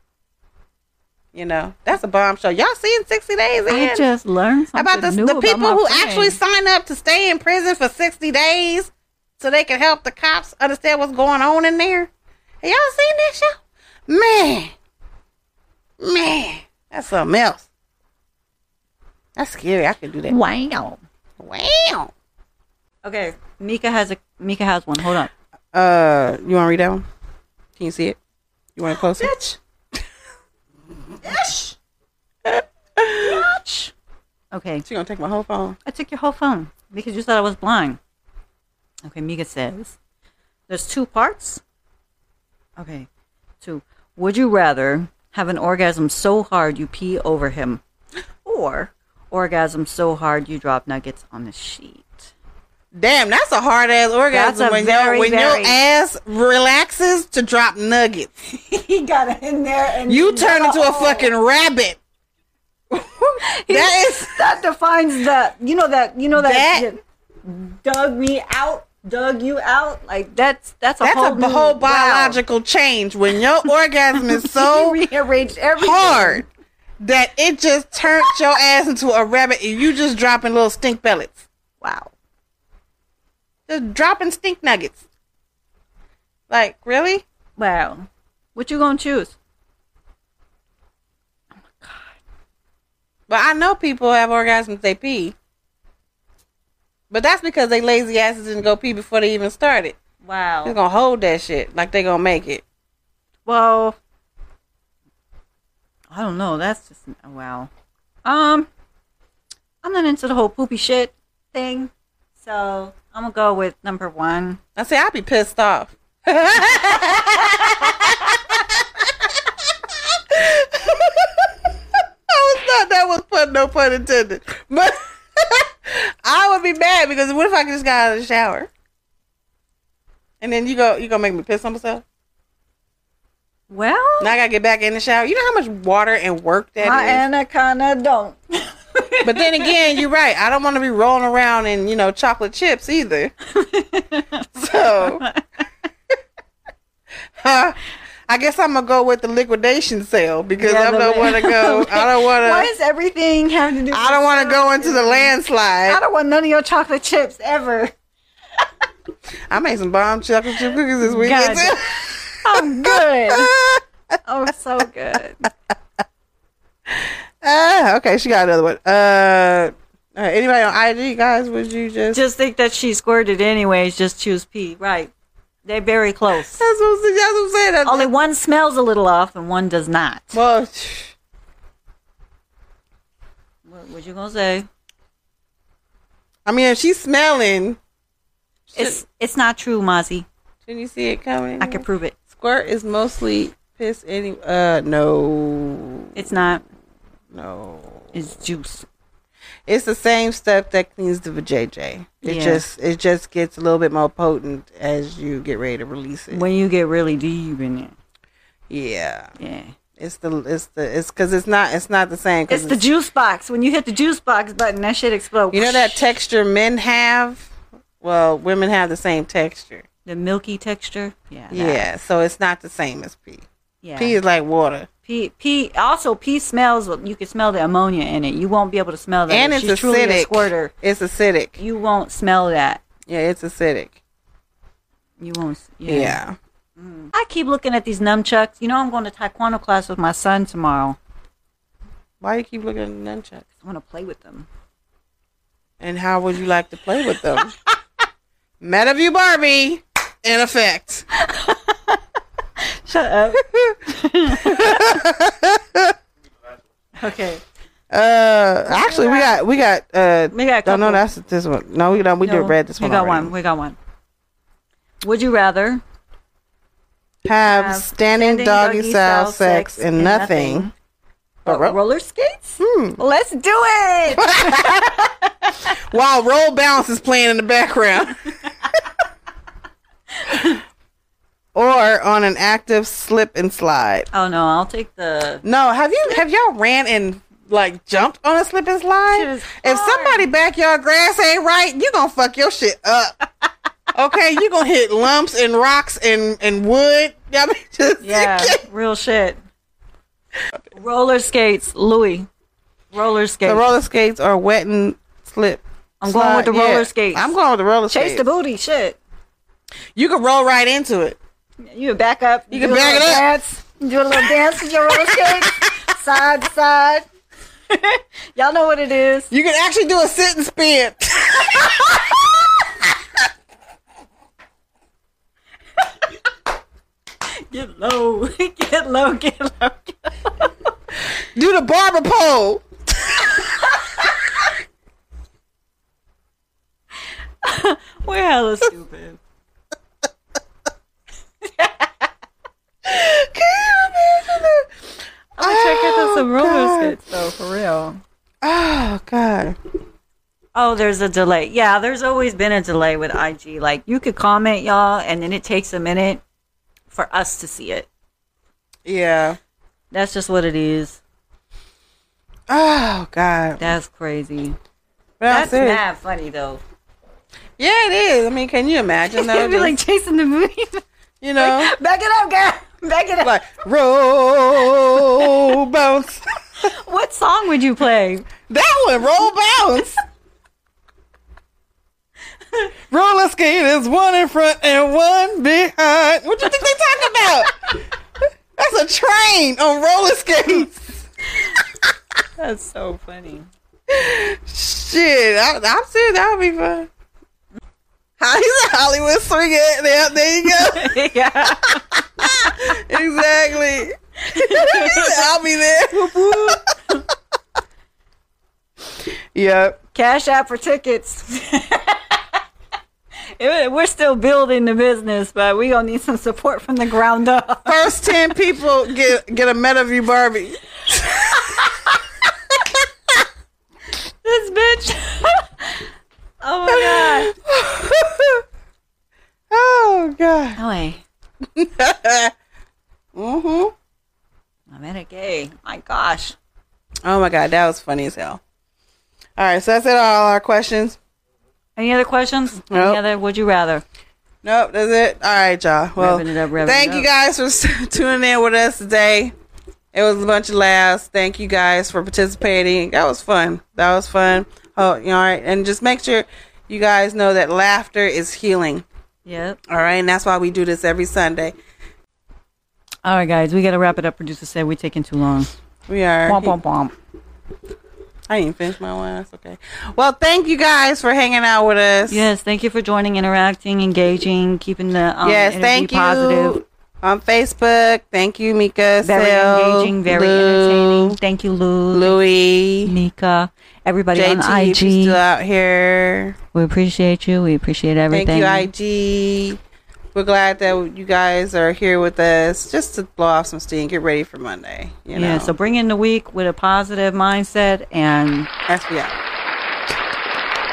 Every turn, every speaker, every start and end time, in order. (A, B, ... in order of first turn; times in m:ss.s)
0:01.3-0:04.1 A
0:03.7-0:06.4 B
0:04.7-0:12.1 A
0:12.6-0:14.7 A
0:16.0-0:17.6 A
0:19.4-0:20.4 A
0:20.3-0:21.0 B
0:21.4-0:22.1 A
0:23.0-0:25.3 B
0:25.7-0:27.0 A
0:27.8-0:28.2 A
0:28.8-0:29.4 A
0:28.9-0:29.6 B
0:31.2-0:31.7 B
0:32.4-0:33.4 A
0:33.2-0:33.9 B
0:34.5-0:34.8 B
0:34.8-0:35.8 A
0:35.8-0:38.0 B
0:39.0-0:40.0 B
0:40.7-0:41.6 B
0:42.8-0:43.1 B
0:43.6-0:47.8 B
0:48.4-0:52.3 B
0:52.9-0:58.3 A
0:54.3-0:55.8 B
0:58.4-1:01.3 B
1:00.0-1:02.0 A
1:03.0-1:12.4 B
1:03.7-1:04.4 A
1:06.4-1:06.8 A
1:11.0-1:15.0 A
1:14.3-1:16.4 B
1:15.8-1:16.4 A
1:17.0-1:21.5 A
1:21.8-1:22.1 B
1:23.7-1:25.0 A
1:26.5-1:27.2 A
1:27.6-1:29.4 B
1:31.7-1:32.2 B
1:33.3-1:35.3 A
1:37.1-1:40.0 A
1:40.2-1:40.8 B
1:40.6-1:42.6 A
1:43.4-1:44.0 B
1:46.1-1:47.7 B
1:48.2-1:48.7 B
1:49.8-1:54.6 B
1:54.8-2:08.7 A
2:10.4-2:12.0 A
2:13.7-2:14.3 B
2:14.2-2:17.2 A
2:16.8-2:20.0 B
2:19.2-2:23.3 A
2:23.5-2:25.4 B
2:24.6-2:25.2 A
2:27.4-2:32.7 A
2:30.6-2:35.3 B
2:33.9-2:36.0 A
2:35.8-2:37.9 B
2:39.5-2:43.8 A
2:41.0-2:41.8 B
2:42.4-2:43.5 B
2:44.2-2:45.5 B
2:46.9-2:52.2 A
2:52.1-2:55.1 B
2:55.6-2:56.6 B
2:56.5-2:58.1 A
2:57.8-3:00.4 B
3:00.3-3:01.2 A
3:03.6-3:04.7 B
3:06.4-3:07.8 A
3:08.7-3:09.0 A
3:08.7-3:10.3 B
3:10.6-3:16.2 A
3:11.6-3:12.2 B
3:16.1-3:16.6 B
3:17.3-3:18.1 A
3:18.1-3:18.9 B
3:19.7-3:26.4 A
3:22.2-3:22.6 B
3:26.3-3:28.0 B
3:28.7-3:29.3 A
3:29.4-3:29.7 B
3:30.0-3:32.8 A
3:32.5-3:36.0 B
3:35.5-3:37.5 A
3:38.0-3:39.8 A
3:40.0-3:41.8 B
3:41.5-3:43.4 A
3:43.8-3:44.2 B
3:44.0-3:44.9 A
3:45.1-3:50.7 B
3:49.3-3:51.6 A
3:51.6-3:52.8 B
3:53.1-3:54.0 A
3:55.2-3:56.2 B
3:55.8-3:56.4 A
3:56.8-4:01.0 B
4:02.2-4:03.4 A
4:03.6-4:04.5 B
4:05.8-4:07.5 A
4:08.6-4:11.0 A
4:11.2-4:12.0 B
4:12.6-4:15.0 B
4:13.4-4:13.8 A
4:14.3-4:15.9 A
4:17.0-4:17.4 B
4:17.9-4:23.3 A
4:18.7-4:19.4 B
4:20.3-4:21.0 B
4:22.2-4:23.8 B
4:25.0-4:25.8 B
4:27.2-4:30.7 A
4:27.4-4:30.7 B
4:31.4-4:31.8 A
4:31.4-4:35.6 B
4:32.6-4:33.0 A
4:34.1-4:35.0 A
4:35.7-4:38.7 A
4:40.2-4:40.6 B
4:41.5-4:44.1 A
4:44.1-4:45.4 B
4:45.4-4:53.2 A
4:49.1-4:50.3 B
4:53.9-4:58.6 A
4:58.0-4:59.4 B
5:00.7-5:02.3 B
5:02.9-5:03.7 B
5:03.4-5:08.3 A
5:06.0-5:07.3 B
5:07.9-5:09.0 B
5:09.9-5:11.2 A
5:11.7-5:17.0 B
5:12.5-5:13.2 A
5:14.9-5:15.7 A
5:17.7-5:19.3 B
5:19.3-5:22.9 A
5:27.3-5:30.7 B
5:31.2-5:33.4 A
5:37.4-5:39.2 B
5:41.6-5:41.9 B
5:42.8-5:44.8 A
5:45.4-5:48.0 B
5:45.4-5:47.0 A
5:48.4-5:49.6 A
5:50.5-5:56.2 B
5:56.9-5:57.9 B
5:58.8-5:59.4 A
5:59.9-6:01.0 B
6:02.5-6:03.7 A
6:03.6-6:04.6 B
6:05.2-6:05.8 A
6:05.3-6:06.6 B
6:07.6-6:09.8 A
6:09.1-6:10.8 B
6:11.2-6:11.7 A
6:11.4-6:13.4 B
6:13.2-6:16.2 A
6:15.0-6:15.3 B
6:16.6-6:18.3 B
6:18.5-6:20.0 A
6:22.9-6:31.0 A
6:32.4-6:33.5 B
6:33.9-6:36.9 A
6:38.2-6:41.0 A
6:40.5-6:42.7 B
6:41.8-6:46.6 A
6:44.3-6:45.3 B
6:45.9-6:47.0 B
6:49.3-6:49.8 A
6:49.9-6:52.2 B
6:53.4-6:58.2 B
6:57.6-7:01.6 A
7:01.2-7:02.0 B
7:02.5-7:02.9 A
7:04.0-7:05.9 B
7:06.4-7:07.3 B
7:06.7-7:08.4 A
7:09.5-7:10.6 A
7:10.6-7:11.0 B
7:11.5-7:12.3 A
7:13.1-7:13.7 A
7:14.7-7:16.4 B
7:17.0-7:18.4 A
7:19.4-7:21.0 A
7:21.8-7:23.8 B
7:22.7-7:23.0 A
7:24.4-7:29.3 A
7:26.0-7:27.1 B
7:29.9-7:38.8 A
7:39.2-7:39.6 B
7:39.7-7:41.5 A
7:43.0-7:45.5 B
7:45.9-7:46.5 A
7:46.2-7:46.9 B
7:48.3-7:52.2 A
7:52.1-7:56.6 B
7:55.2-8:01.2 A
7:59.0-8:02.2 B
8:01.9-8:02.9 A
8:02.8-8:05.2 B
8:04.1-8:06.4 A
8:06.5-8:08.7 B
8:08.1-8:09.6 A
8:10.1-8:15.5 A
8:15.1-8:18.5 B
8:18.7-8:19.1 A